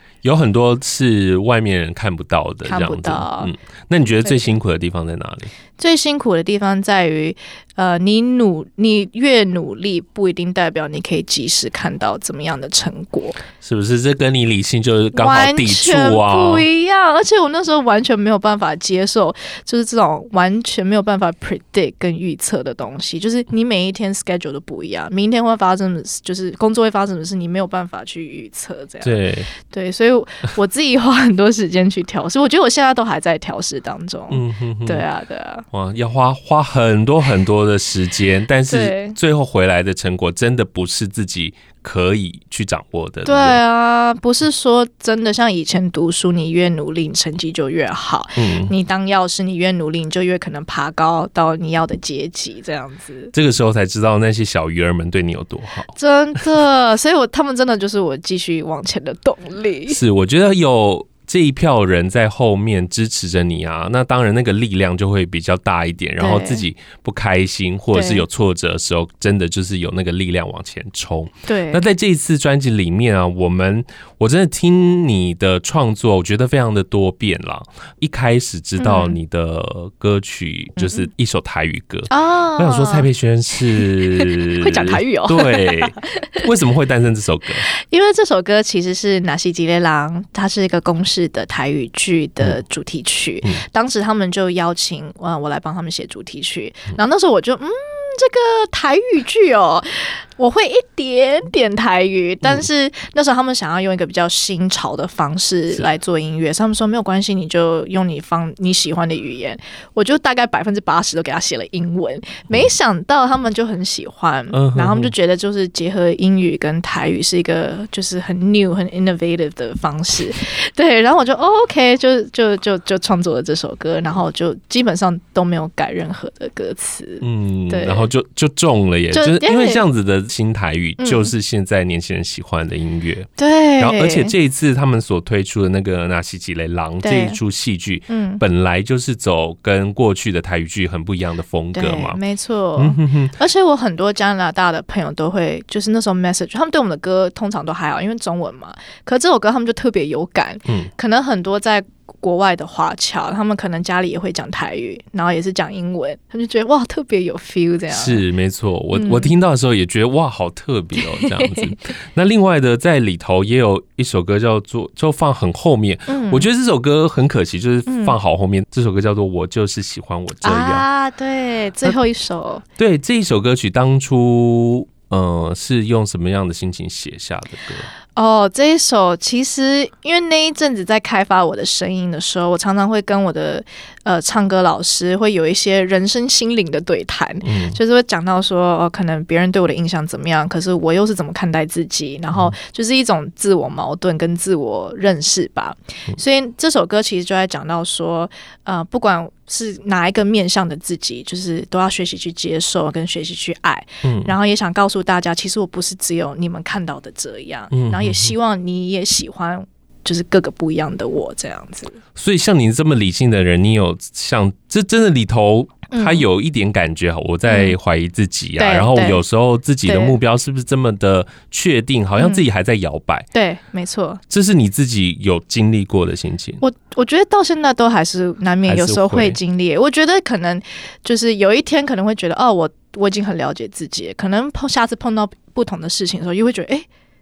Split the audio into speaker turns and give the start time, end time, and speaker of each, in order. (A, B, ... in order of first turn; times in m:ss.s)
0:00.2-0:05.5 A
0:02.6-0:03.5 B
0:05.8-0:13.4 B
0:13.6-0:16.6 A
0:15.1-0:35.6 B
0:29.0-0:29.5 A
0:34.3-0:35.0 A
0:35.7-0:43.6 A
0:38.7-0:39.2 B
0:43.2-0:53.3 B
0:48.4-0:48.7 A
0:53.3-0:55.9 A
0:55.9-1:00.0 B
0:59.9-1:27.6 A
1:06.2-1:06.7 B
1:07.9-1:08.2 B
1:11.5-1:11.8 B
1:18.8-1:19.2 B
1:20.8-1:21.1 B
1:22.1-1:23.1 B
1:23.7-1:26.4 B
1:27.7-2:08.1 B
1:54.5-1:55.1 A
2:07.2-2:22.2 A
2:09.1-2:09.8 B
2:11.0-2:11.3 B
2:13.4-2:14.3 B
2:17.0-2:17.4 B
2:18.1-2:18.4 B
2:21.7-2:38.2 B
2:22.8-2:23.3 A
2:37.9-2:50.8 A
2:38.9-2:39.3 B
2:41.0-2:41.7 B
2:46.1-2:46.5 B
2:47.8-2:48.2 B
2:50.4-2:52.6 B
2:52.8-2:57.9 A
2:58.1-3:32.0 B
3:07.4-3:07.8 A
3:24.0-3:24.3 A
3:27.7-3:28.4 A
3:32.2-3:43.3 A
3:35.9-3:36.2 B
3:37.4-3:37.8 B
3:38.6-3:39.2 B
3:39.8-3:40.2 B
3:42.2-3:42.4 B
3:43.3-3:44.2 B
3:44.3-3:46.6 A
3:46.6-3:56.9 B
3:48.7-3:49.4 A